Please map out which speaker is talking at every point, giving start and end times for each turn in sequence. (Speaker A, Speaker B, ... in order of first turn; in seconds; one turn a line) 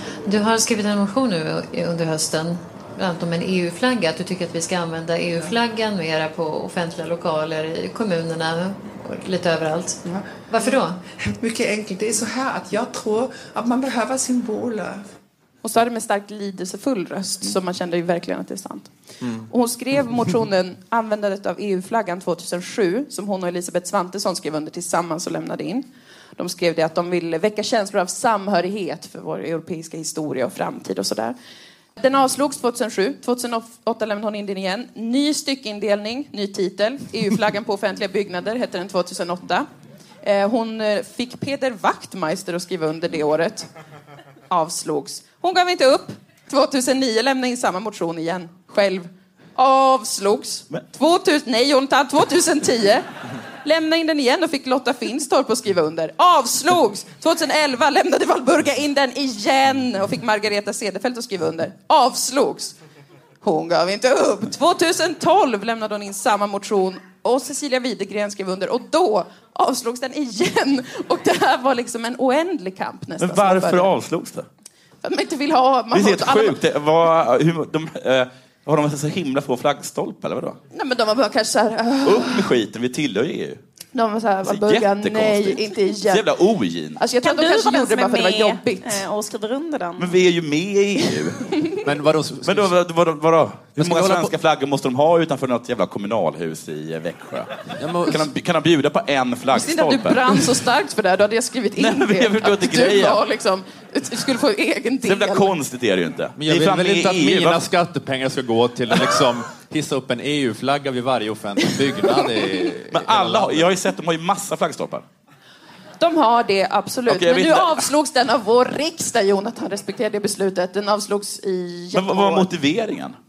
Speaker A: 0.3-11.0
Speaker B: 10.0-15.1
Speaker C: 15.6-18.9
Speaker D: 19.2-19.5
Speaker C: 19.5-31.4
Speaker C: 32.0-39.7
Speaker C: 40.2-43.7
Speaker C: 44.5-53.1
Speaker C: 53.6-62.8
Speaker C: 63.4-73.9
Speaker E: 73.2-74.5
Speaker C: 75.0-76.6
Speaker E: 75.9-80.6
Speaker C: 80.7-82.5
Speaker E: 82.0-83.6
Speaker C: 83.9-86.3
Speaker E: 84.4-87.0
Speaker C: 87.0-89.0
Speaker F: 87.2-90.1
Speaker E: 90.0-91.5
Speaker D: 91.8-92.7
Speaker E: 92.5-100.4
Speaker D: 93.8-94.3
Speaker D: 97.8-98.3
Speaker C: 99.5-105.5
Speaker E: 101.8-103.2
Speaker E: 105.0-107.6
Speaker D: 106.4-113.7
Speaker C: 111.8-112.7
Speaker E: 112.9-115.0
Speaker C: 116.0-122.5
Speaker E: 117.1-117.9
Speaker E: 121.9-123.2